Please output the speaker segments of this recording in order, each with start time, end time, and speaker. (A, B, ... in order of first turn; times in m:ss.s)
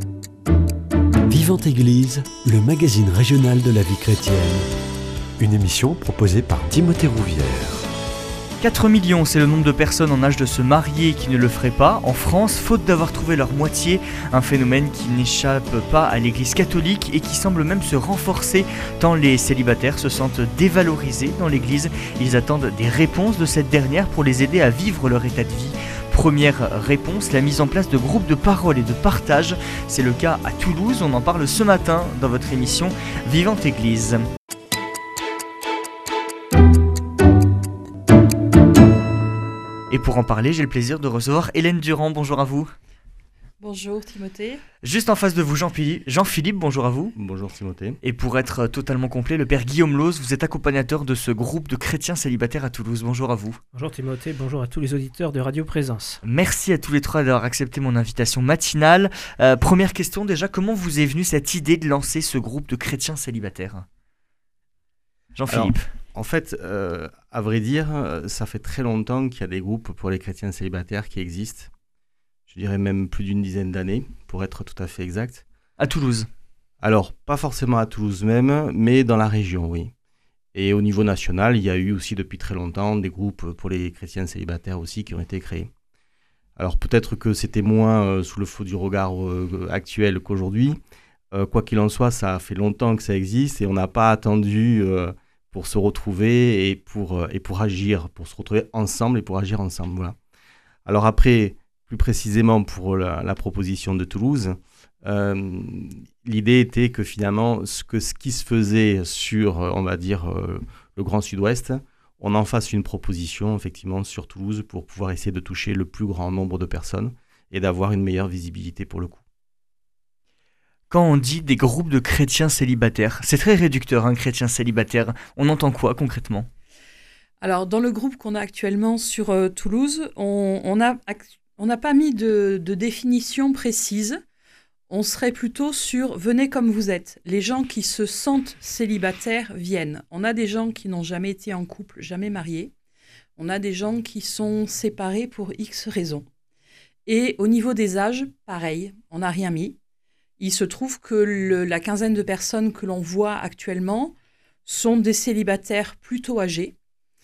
0:01.3-0:04.7 A
0:05.4-0:07.9 A
0:08.6-0:34.3 B
0:39.9-0:42.8 B
0:43.6-0:44.6 C
0:44.8-0:47.1 B
0:47.2-0:48.0 D
0:48.0-0:53.6 B
0:53.7-0:56.2 E
0:56.2-1:03.9 B
1:05.4-1:05.9 B
1:05.5-1:11.7 D
1:12.5-1:15.4 D
1:15.8-1:16.3 B
1:16.8-1:19.9 D
1:20.5-1:25.7 D
1:26.6-1:30.8 D
1:31.3-1:40.2 D
1:40.8-1:59.2 D
2:00.9-2:06.5 B
2:07.4-2:14.2 C
2:14.9-2:22.7 C
2:23.4-2:26.3 C
2:27.1-2:29.8 C
2:30.4-2:34.2 C
2:34.7-2:36.8 C